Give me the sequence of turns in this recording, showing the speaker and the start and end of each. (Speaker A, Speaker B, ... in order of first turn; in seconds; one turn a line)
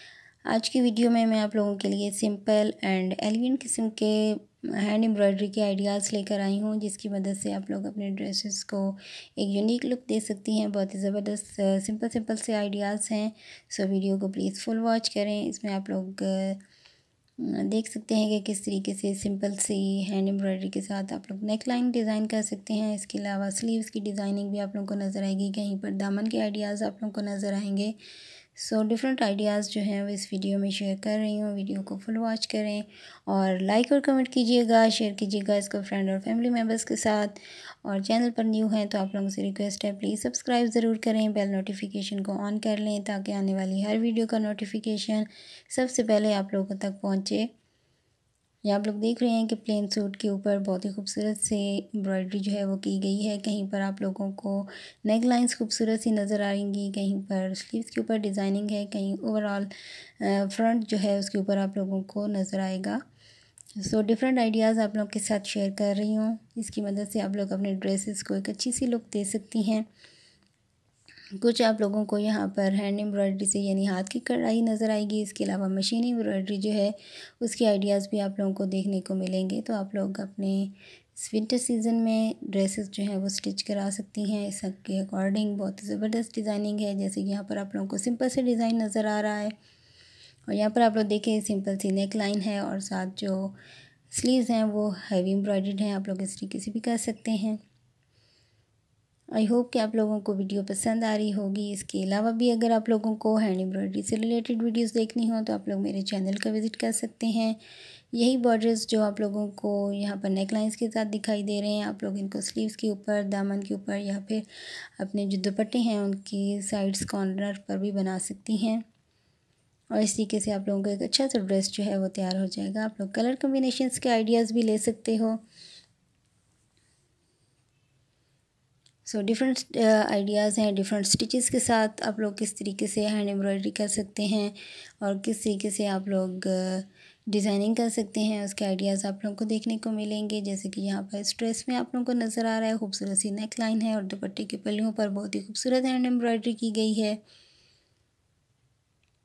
Speaker A: 0.5-16.6
Speaker A: 17.4-27.9
Speaker A: 28.5-47.5
Speaker A: 48.6-63.0
Speaker A: 63.8-69.9
Speaker A: 71.4-89.5
Speaker A: 90.5-93.5
Speaker A: 94.1-97.6
Speaker A: 99.3-107.6
Speaker A: 108.1-114.5
Speaker A: 115.0-118.8
Speaker A: 119.9-125.4
Speaker A: 129.0-147.2